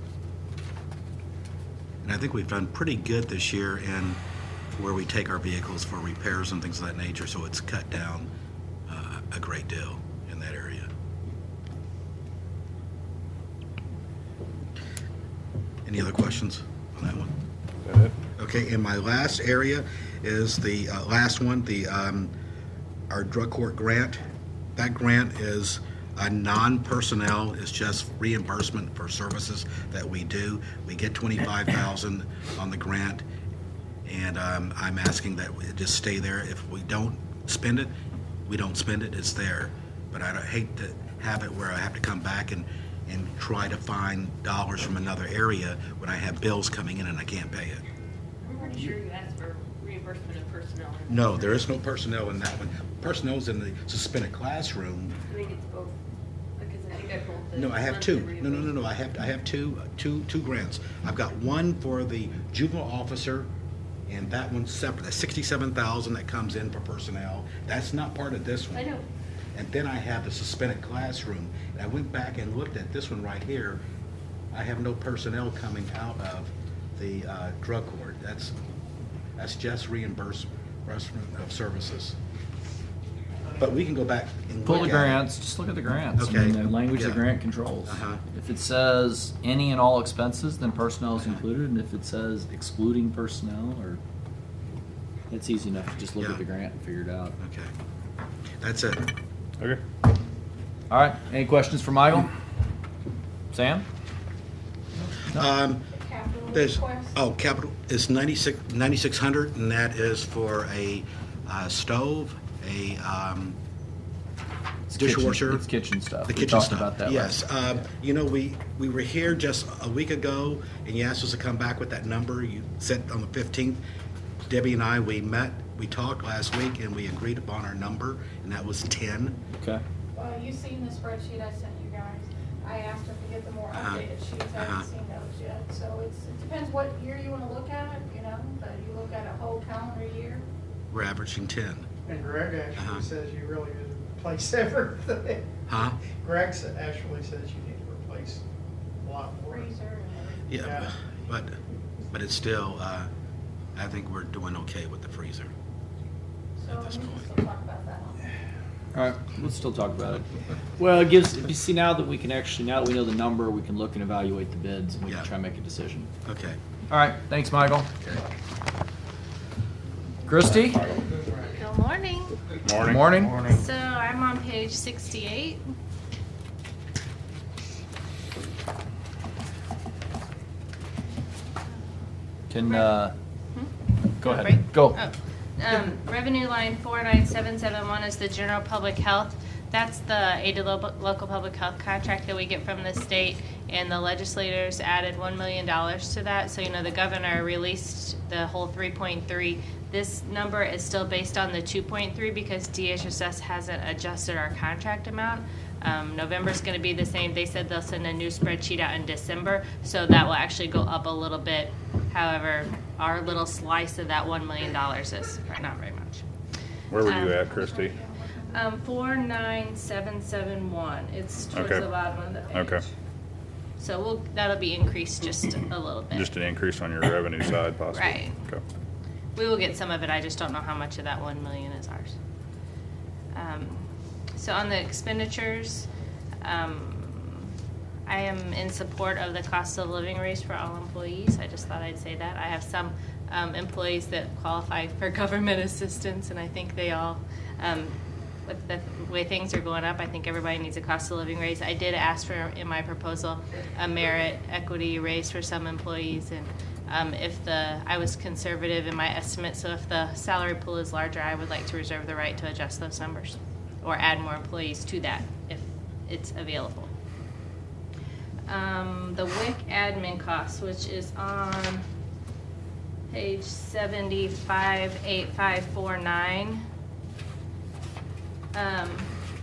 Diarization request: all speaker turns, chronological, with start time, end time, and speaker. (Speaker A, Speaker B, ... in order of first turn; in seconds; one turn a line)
Speaker A: 2.0-8.3
Speaker A: 8.9-10.9
Speaker A: 15.8-17.4
Speaker B: 17.9-18.1
Speaker A: 18.4-22.3
Speaker A: 23.1-24.2
Speaker A: 24.8-33.2
Speaker A: 34.0-38.0
Speaker A: 38.5-47.8
Speaker C: 48.4-51.7
Speaker A: 51.1-55.2
Speaker C: 55.3-56.0
Speaker C: 56.6-58.8
Speaker A: 57.6-63.5
Speaker A: 64.1-68.9
Speaker C: 68.7-69.1
Speaker A: 69.5-73.8
Speaker A: 74.5-78.5
Speaker A: 79.4-82.2
Speaker A: 83.6-85.2
Speaker D: 84.7-94.0
Speaker A: 86.2-87.2
Speaker A: 87.8-88.2
Speaker D: 95.3-97.4
Speaker A: 97.4-97.7
Speaker A: 98.6-99.1
Speaker D: 100.9-102.3
Speaker D: 103.5-103.9
Speaker D: 105.2-105.5
Speaker A: 105.3-105.9
Speaker E: 105.9-107.2
Speaker A: 106.5-113.6
Speaker D: 114.9-117.4
Speaker A: 114.9-115.6
Speaker A: 116.3-123.8
Speaker A: 124.5-129.4
Speaker E: 130.2-140.5
Speaker A: 133.8-134.1
Speaker A: 134.6-134.9
Speaker A: 140.9-141.9
Speaker F: 142.1-145.5
Speaker A: 142.8-143.1
Speaker A: 145.7-146.0
Speaker F: 146.1-148.4
Speaker F: 149.0-149.7
Speaker E: 149.5-150.5
Speaker A: 150.5-151.6
Speaker F: 150.6-150.9
Speaker A: 152.1-153.1
Speaker A: 153.8-155.5
Speaker E: 156.6-158.2
Speaker A: 156.7-157.3
Speaker D: 158.9-160.3
Speaker D: 160.8-166.1
Speaker A: 166.3-166.6
Speaker D: 166.9-167.9
Speaker D: 170.3-170.8
Speaker B: 170.7-171.1
Speaker G: 171.4-172.4
Speaker B: 172.6-173.6
Speaker D: 172.8-173.4
Speaker G: 173.4-175.6
Speaker D: 182.5-183.2
Speaker G: 182.6-182.9
Speaker G: 183.5-216.2
Speaker D: 184.2-185.0
Speaker B: 216.9-218.0
Speaker G: 217.0-217.4
Speaker E: 217.3-218.7
Speaker G: 218.5-222.8
Speaker B: 221.5-221.9
Speaker B: 222.5-222.8
Speaker G: 223.8-226.3
Speaker B: 226.1-228.6
Speaker G: 227.9-228.4
Speaker G: 229.4-232.1
Speaker G: 233.3-235.9
Speaker G: 236.4-237.5
Speaker G: 238.1-247.9
Speaker G: 248.5-266.9
Speaker G: 268.5-271.9
Speaker G: 273.1-276.6
Speaker G: 278.5-279.1